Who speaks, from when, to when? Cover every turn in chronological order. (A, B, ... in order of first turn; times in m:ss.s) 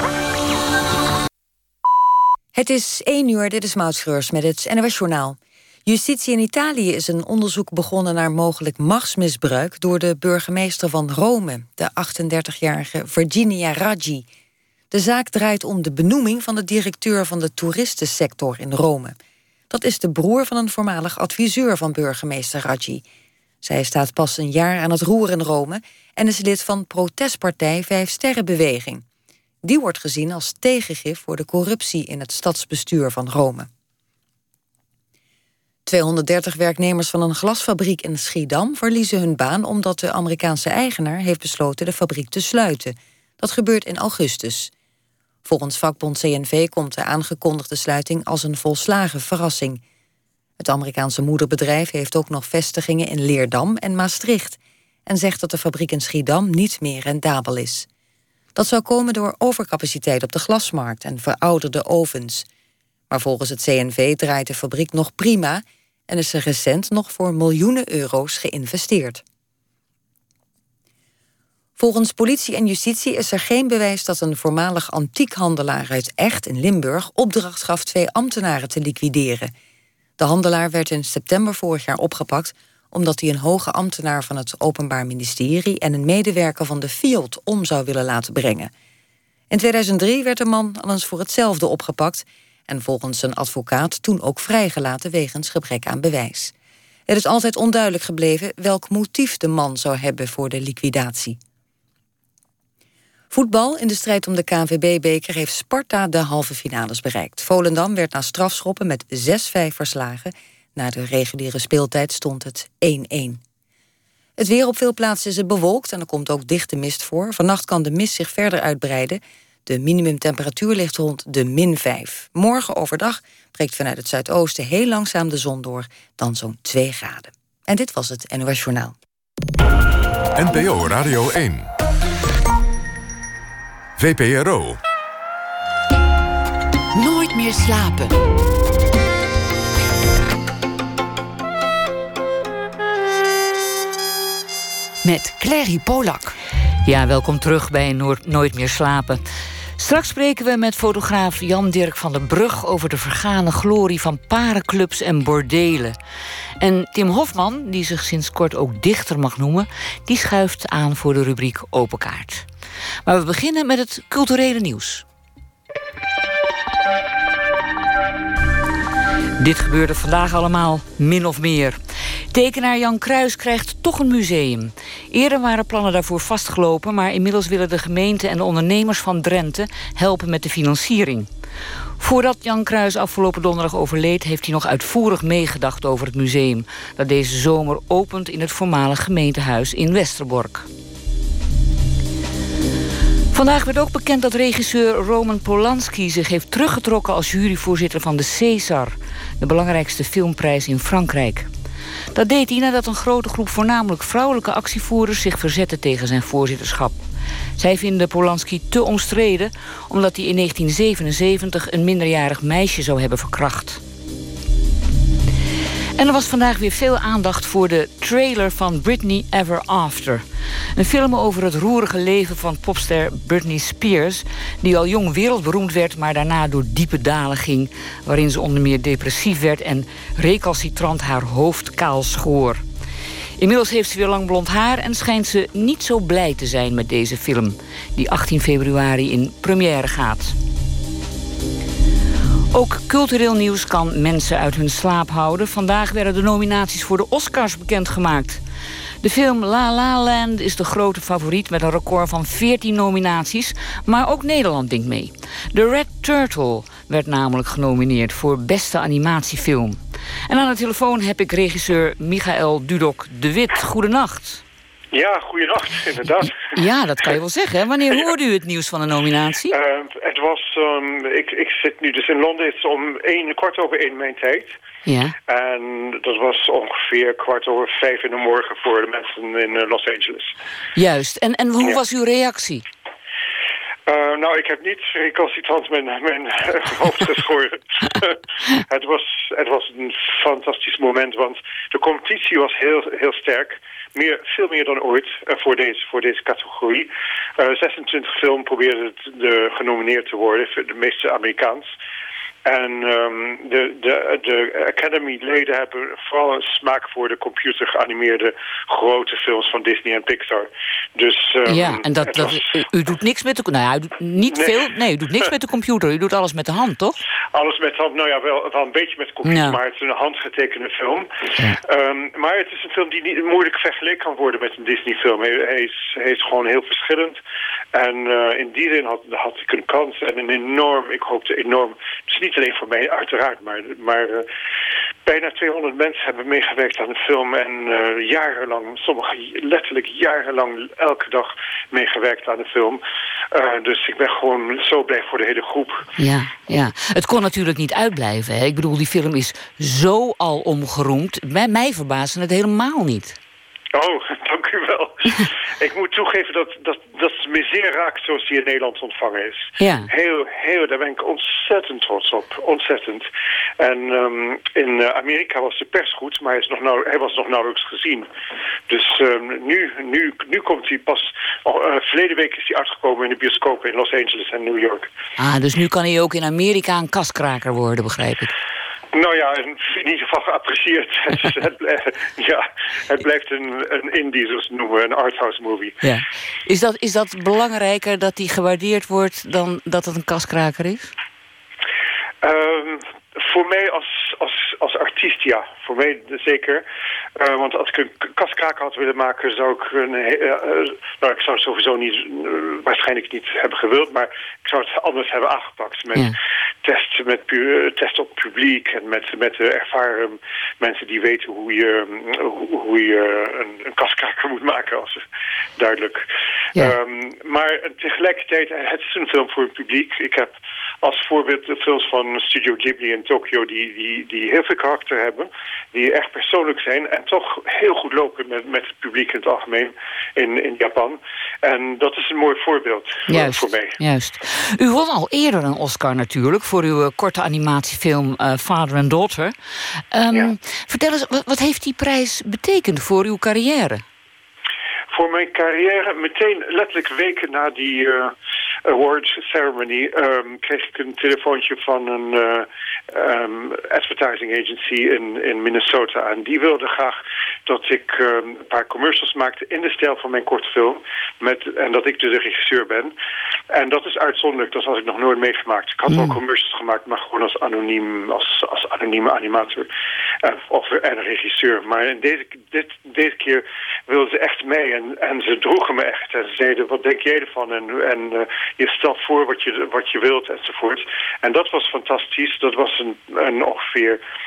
0:02.5-0:14.2 A
0:14.9-0:19.1 A
0:19.7-0:23.0 A
0:23.6-0:29.0 A
0:29.6-0:33.7 A
0:35.8-0:44.7 A
0:45.4-0:49.8 A
0:50.6-0:57.9 A
0:58.5-1:02.4 A
1:03.1-1:09.2 A
1:11.8-1:19.5 A
1:20.2-1:28.7 A
1:29.5-1:36.5 A
1:37.1-1:41.4 A
1:43.3-1:53.4 A
1:54.4-2:08.9 A
2:10.3-2:11.7 B
2:14.0-2:14.8 B
2:16.9-2:18.2 C
2:25.0-2:26.4 C
2:26.8-2:29.2 D
2:29.8-2:36.0 D
2:36.6-2:42.5 D
2:43.0-2:45.0 D
2:49.4-2:51.8 D
2:52.3-3:01.3 D
3:02.0-3:10.7 D
3:13.3-3:21.5 D
3:22.1-3:27.0 D
3:27.6-3:33.8 D
3:36.0-3:52.6 D
3:53.4-4:00.4 D
4:02.5-4:08.4 D
4:09.0-4:24.4 D
4:24.9-4:26.4 E
4:26.5-4:29.6 D
4:29.5-4:34.5 E
4:34.8-4:35.2 D
4:35.3-4:40.3 E
4:40.8-4:42.6 D
4:43.9-5:01.7 E
5:02.4-5:12.4 E
5:11.5-5:16.9 D
5:14.3-5:14.6 E
5:17.3-5:21.1 E
5:19.2-5:19.6 D
5:21.6-5:27.2 E
5:27.7-5:34.3 E
5:35.0-5:42.8 E
5:43.3-5:45.8 E
5:46.0-5:53.2 D
5:53.7-6:03.1 E
5:59.6-5:59.9 D
6:03.6-6:08.1 E
6:08.7-6:14.9 E
6:15.2-6:18.3 D
6:18.9-6:25.7 E
6:25.8-6:30.9 D
6:32.2-6:36.6 E
6:37.2-6:55.0 E
6:55.6-6:56.0 E
6:56.6-7:13.8 E
7:13.1-7:19.3 D
7:19.9-7:23.8 D
7:24.9-7:28.1 E
7:28.6-7:42.9 E
7:43.5-7:49.7 E
7:45.9-7:46.2 D
7:50.2-8:04.0 E